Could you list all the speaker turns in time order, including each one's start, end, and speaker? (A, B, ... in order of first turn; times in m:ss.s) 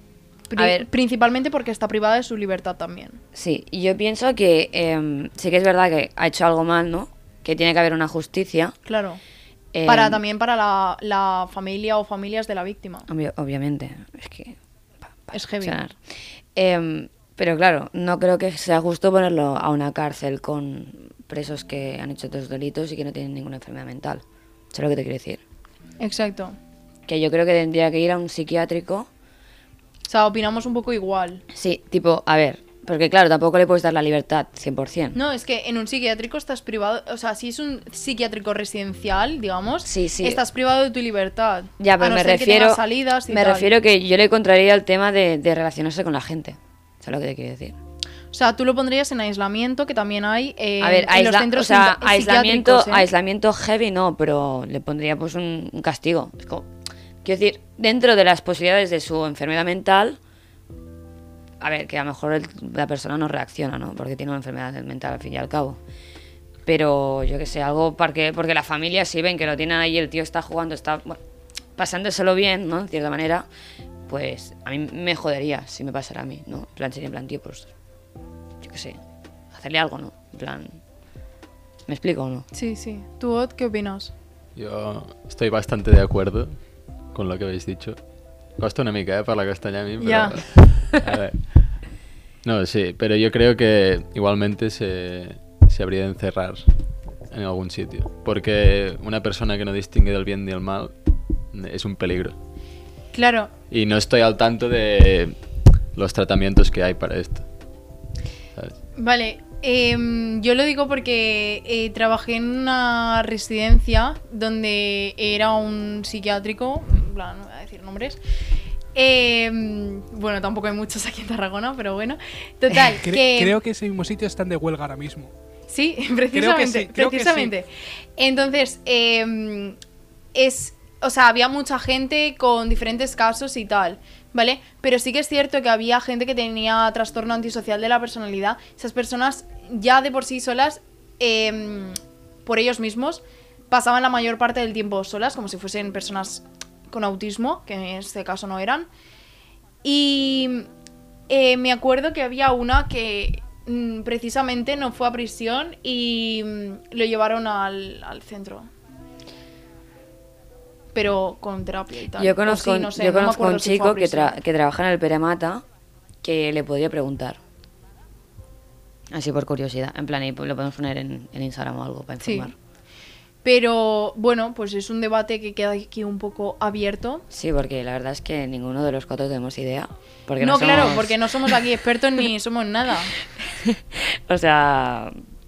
0:00.5-0:03.2 A
0:00.6-0:00.9 B
0:03.4-0:08.7 B
0:08.9-0:09.2 A
0:09.7-0:10.2 B
0:09.9-0:13.0 A
0:13.1-0:14.6 B
0:15.2-0:15.9 B
0:15.3-0:15.8 A
0:16.6-0:25.4 B
0:26.0-0:26.6 A
0:27.1-0:29.1 B
0:30.1-0:31.4 A
0:31.5-0:35.2 B
0:35.1-0:43.7 A
0:39.8-0:40.4 B
0:41.8-0:47.8 B
0:48.3-0:53.1 A
0:50.8-0:56.7 B
0:57.2-1:00.2 B
1:01.6-1:05.8 B
1:06.6-1:11.2 B
1:11.8-1:13.4 B
1:14.1-1:17.7 B
1:18.6-1:19.0 B
1:19.5-1:20.8 B
1:21.9-1:22.5 B
1:22.5-1:24.1 A
1:24.6-1:26.6 C
1:27.1-1:28.0 C
1:28.6-1:31.5 C
1:30.0-1:30.4 A
1:32.4-1:36.6 C
1:37.3-1:41.0 C
1:41.5-1:42.4 C
1:43.1-1:43.5 A
1:43.7-1:45.4 C
1:45.9-1:47.4 C
1:49.0-1:58.2 A
1:58.9-2:03.6 A
2:02.9-2:05.3 D
2:05.7-2:09.8 A
2:06.3-2:07.5 D
2:10.4-2:28.9 A
2:29.8-2:30.7 A
2:31.3-2:38.7 A
2:40.9-2:44.3 A
2:42.2-2:45.6 B
2:46.2-2:47.4 B
2:49.1-2:52.6 B
2:52.2-2:52.5 A
2:53.4-2:57.2 A
2:57.3-3:01.5 B
3:00.4-3:03.1 A
3:03.6-3:05.2 B